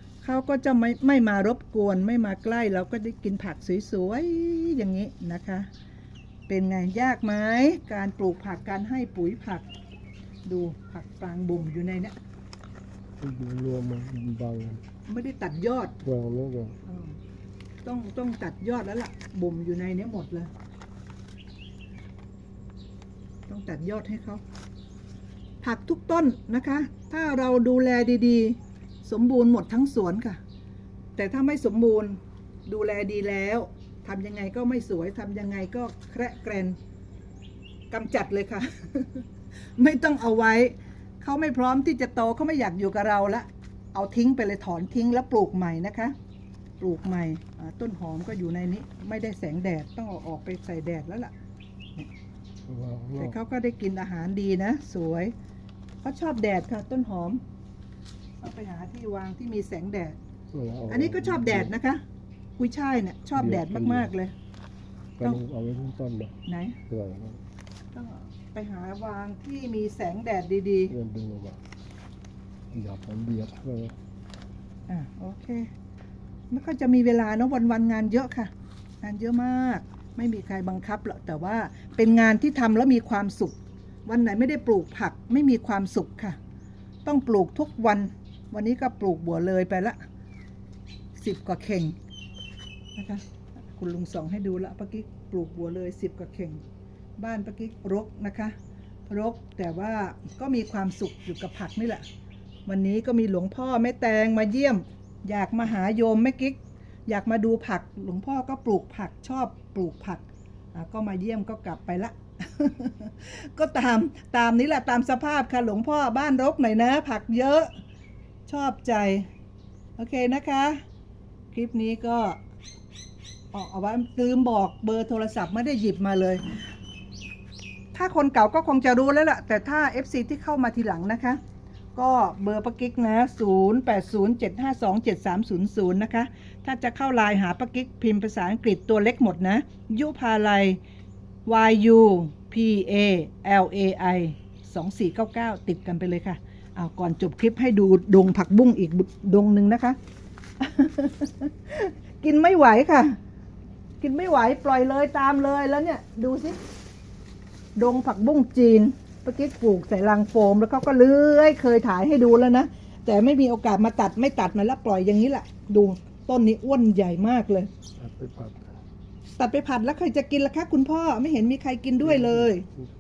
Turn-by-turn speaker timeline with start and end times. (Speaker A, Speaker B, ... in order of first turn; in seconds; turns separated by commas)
Speaker A: 0.2-5.7, Speaker A: 6.5-9.7, Speaker A: 10.5-12.2, Speaker B: 13.2-14.8, Speaker A: 15.1-15.9, Speaker B: 16.0-16.8, Speaker A: 16.9-17.1, Speaker A: 17.8-20.5, Speaker A: 23.5-24.4, Speaker A: 25.6-30.4, Speaker A: 31.2-36.8, Speaker A: 37.9-39.2, Speaker A: 39.8-46.1, Speaker A: 46.8-51.3, Speaker B: 52.7-53.4, Speaker A: 53.2-55.3, Speaker A: 56.0-57.4, Speaker A: 58.4-60.2, Speaker B: 60.5-61.7, Speaker A: 60.9-62.0, Speaker A: 62.6-64.3, Speaker B: 63.4-64.1, Speaker B: 65.2-66.3, Speaker A: 66.5-66.8, Speaker B: 66.9-67.4, Speaker A: 67.9-71.0, Speaker B: 70.9-71.6, Speaker B: 72.7-74.0, Speaker A: 74.9-75.7, Speaker A: 76.5-86.4, Speaker A: 87.0-90.0, Speaker A: 91.2-92.0, Speaker A: 93.0-96.6, Speaker A: 97.2-98.5, Speaker A: 99.1-102.0, Speaker A: 102.7-117.7, Speaker A: 118.5-119.3, Speaker A: 120.0-120.8, Speaker A: 121.5-122.4, Speaker A: 123.5-126.6, Speaker A: 127.9-131.4, Speaker A: 131.9-140.8, Speaker A: 141.5-150.0, Speaker A: 150.6-153.2, Speaker A: 154.0-156.6, Speaker A: 157.8-167.7, Speaker B: 168.0-168.7, Speaker A: 169.4-172.7, Speaker B: 172.0-172.8